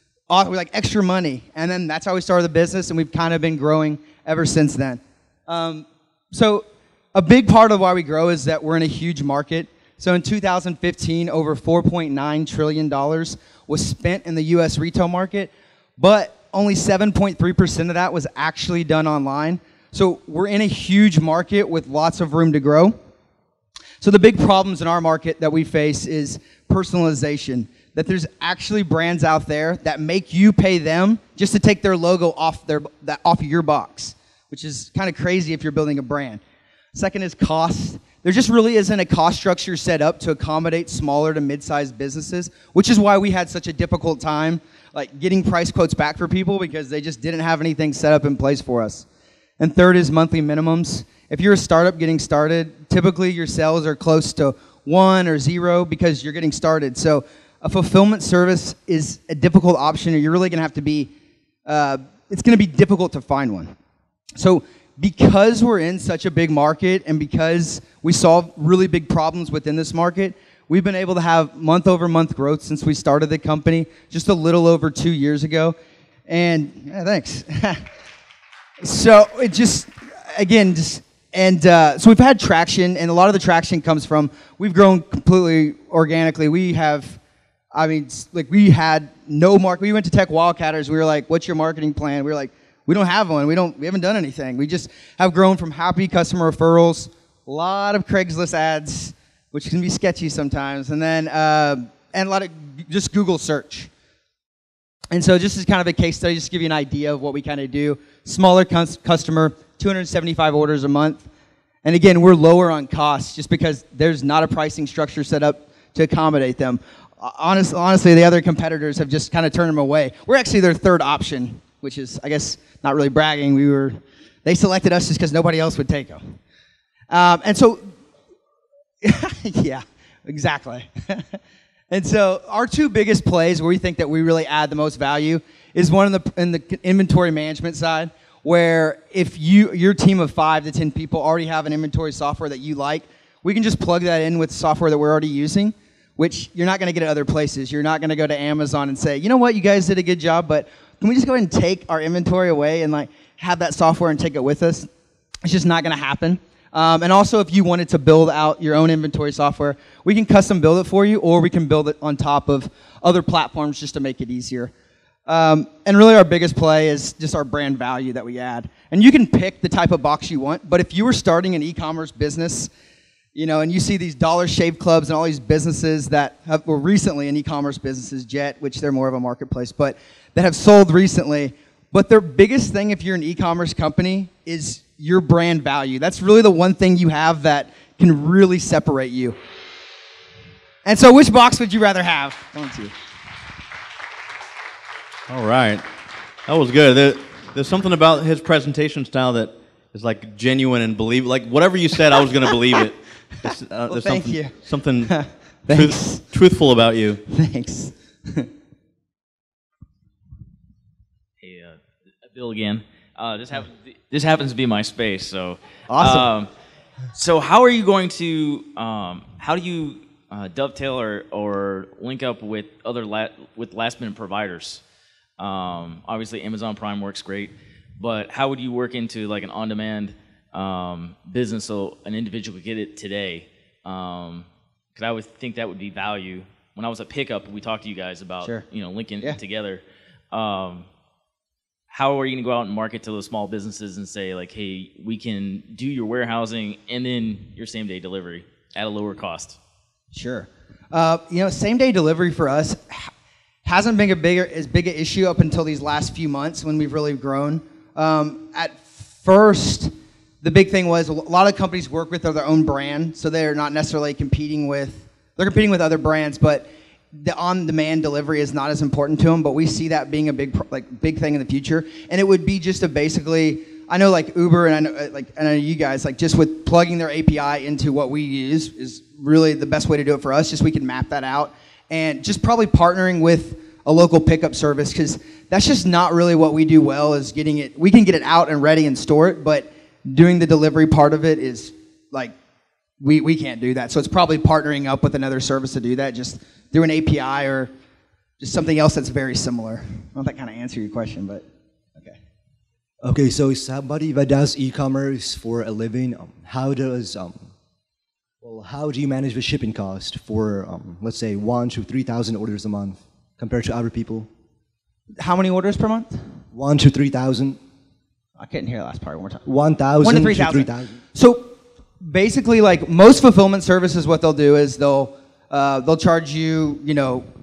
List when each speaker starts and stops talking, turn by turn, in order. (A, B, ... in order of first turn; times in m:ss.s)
0:00.3-0:23.0 A
0:24.0-0:36.4 A
0:36.9-0:49.1 A
0:49.6-1:01.1 A
1:01.7-1:03.7 A
1:04.4-1:15.8 A
1:16.3-1:17.9 A
1:18.8-1:27.2 A
1:27.7-1:43.9 A
1:45.1-1:51.3 A
1:51.8-2:06.2 A
2:07.1-2:07.9 A
2:09.0-2:11.4 A
2:11.9-2:34.9 A
2:35.4-2:44.7 A
2:45.3-2:52.7 A
2:53.4-3:09.4 A
3:10.8-3:12.9 A
3:15.3-3:15.8 B
3:16.5-3:25.2 B
3:23.9-3:26.4 A
3:25.7-3:27.2 B
3:27.3-3:28.5 A
3:31.4-3:36.5 C
3:35.9-3:36.3 A
3:37.1-3:44.8 C
3:45.4-4:00.9 C
4:01.9-4:09.6 C
4:10.1-4:13.1 A
4:13.6-4:52.3 A
4:53.0-4:57.7 A
4:58.4-5:01.5 A
5:03.0-5:07.5 D
5:08.4-5:14.3 D
5:15.2-5:16.2 A
5:16.5-5:17.6 D
5:18.4-5:19.4 A
5:19.4-5:21.0 D
5:20.0-5:27.3 A